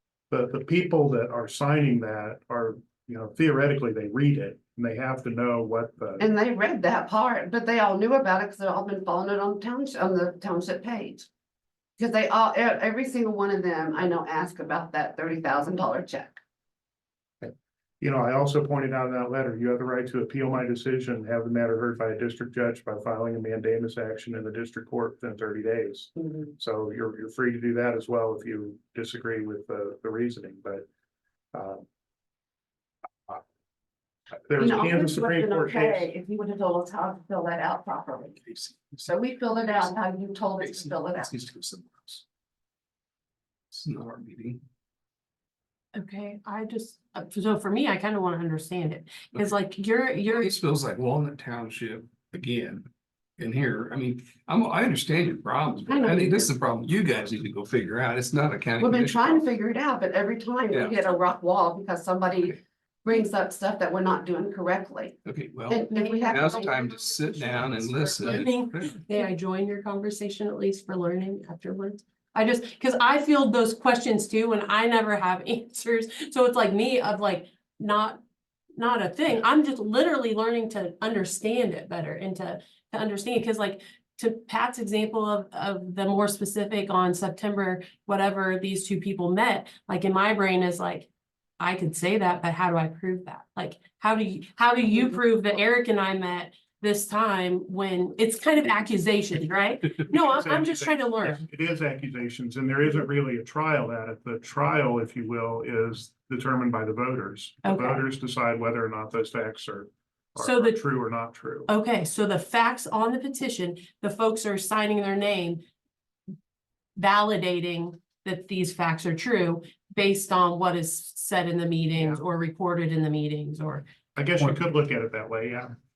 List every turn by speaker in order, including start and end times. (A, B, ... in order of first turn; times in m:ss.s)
0:00.3-0:06.3 A
0:06.2-0:11.3 B
0:12.0-0:16.4 B
0:17.4-0:30.8 A
0:31.5-0:31.8 A
0:34.5-0:36.1 A
0:34.6-0:41.3 B
0:38.5-0:39.0 C
0:40.6-0:42.2 C
0:43.7-0:44.6 C
0:45.9-0:50.5 D
0:50.3-0:52.9 C
0:53.4-0:59.4 C
0:55.9-0:56.5 B
0:58.8-1:06.7 B
1:00.7-1:01.1 C
1:05.2-1:09.0 C
1:05.9-1:18.2 D
1:18.8-1:41.4 D
1:40.1-1:51.7 A
1:47.6-1:48.0 D
1:50.4-1:50.8 D
1:51.7-1:55.6 D
1:57.0-2:03.8 D
2:04.1-2:05.7 A